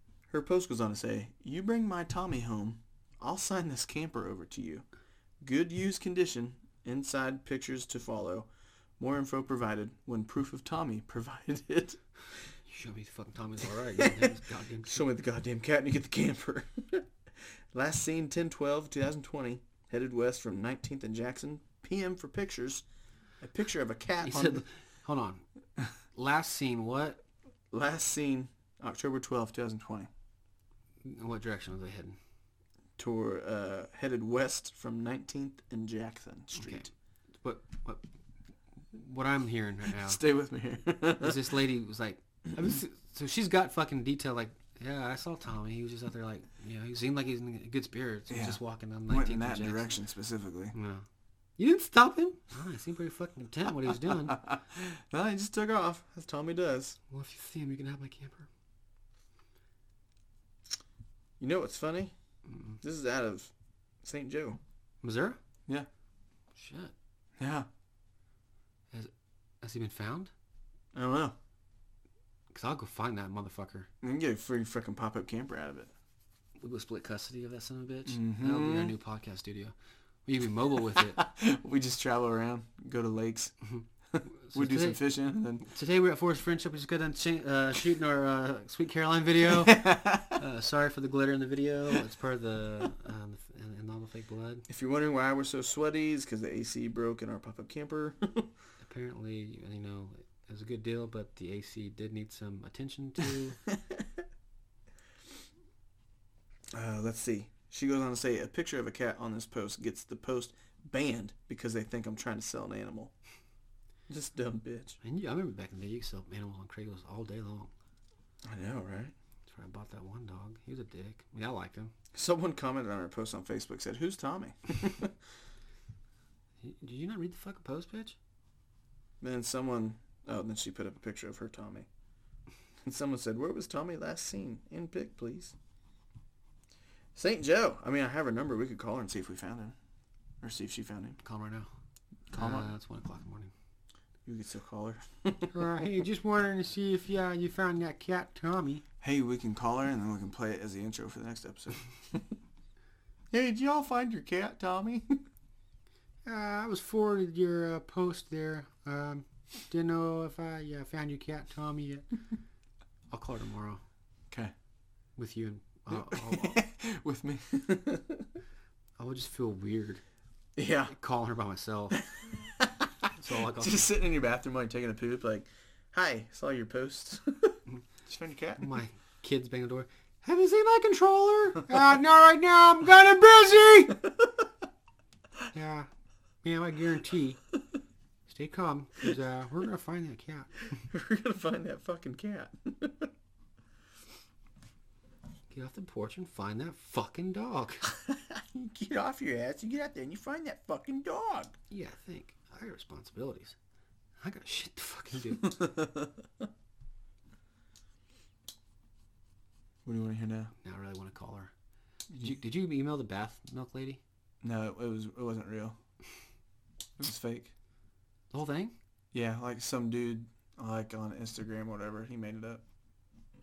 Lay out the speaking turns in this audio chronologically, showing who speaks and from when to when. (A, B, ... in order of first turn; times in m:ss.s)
0:00.3-0:04.8 A
0:05.4-0:08.5 A
0:09.0-0:12.0 A
0:12.7-0:15.0 B
0:14.0-0:14.3 A
0:14.8-0:17.1 A
0:17.7-0:22.8 A
0:23.4-0:24.6 A
0:24.2-0:25.4 B
0:26.1-0:27.2 B
0:27.7-0:30.1 A
0:31.0-0:32.2 B
0:33.0-0:36.8 A
0:36.5-0:36.9 B
0:37.4-0:38.0 B
0:38.9-0:40.2 B
0:39.9-0:41.4 A
0:41.2-0:49.9 B
0:48.3-0:50.7 A
0:50.7-0:51.0 B
0:51.6-0:54.5 B
0:54.3-0:57.0 A
0:57.1-0:58.5 B
1:01.4-1:02.1 A
1:02.5-1:02.8 B
1:02.8-1:03.5 A
1:04.0-1:04.6 A
1:05.0-1:05.4 B
1:06.5-1:06.9 B
1:07.4-1:07.7 A
1:09.6-1:10.3 B
1:10.9-1:11.4 A
1:12.5-1:13.9 B
1:14.0-1:15.9 A
1:16.6-1:19.7 B
1:18.0-1:18.9 A
1:20.2-1:21.2 B
1:20.9-1:23.5 A
1:23.6-1:25.0 B
1:24.1-1:25.6 A
1:25.6-1:34.6 B
1:29.4-1:30.4 A
1:34.7-1:38.5 A
1:38.8-1:43.6 B
1:46.7-1:53.1 A
1:54.1-1:55.0 A
1:55.0-1:57.7 B
1:58.4-1:59.1 A
1:59.5-2:01.9 B
2:02.1-2:05.2 A
2:06.6-2:08.2 B
2:09.2-2:11.9 A
2:12.8-2:15.5 A
2:17.2-2:19.8 A
2:20.4-2:21.2 A
2:21.2-2:21.7 B
2:22.3-2:22.7 A
2:22.3-2:23.5 B
2:24.2-2:25.6 A
2:25.5-2:28.8 B
2:29.0-2:32.3 A
2:33.3-2:35.2 A
2:36.2-2:42.1 B
2:43.1-2:43.8 B
2:45.2-2:46.6 B
2:45.9-2:48.3 A
2:49.0-2:50.0 B
2:50.6-2:50.9 A
2:50.9-2:52.0 B
2:52.6-2:52.9 A
2:53.2-2:53.9 B
2:53.5-2:58.7 A
2:58.6-3:04.0 B
3:05.5-3:05.9 B
3:06.4-3:07.4 B
3:08.3-3:10.5 B
3:10.7-3:13.1 A
3:15.5-3:17.9 B
3:17.9-3:21.5 A
3:21.7-3:23.6 B
3:24.2-3:25.6 B
3:25.5-3:26.1 A
3:29.8-3:30.5 A
3:30.6-3:31.5 B
3:32.1-3:34.0 B
3:34.4-3:35.8 A
3:37.0-3:37.5 A
3:38.3-3:38.7 B
3:39.1-3:42.6 A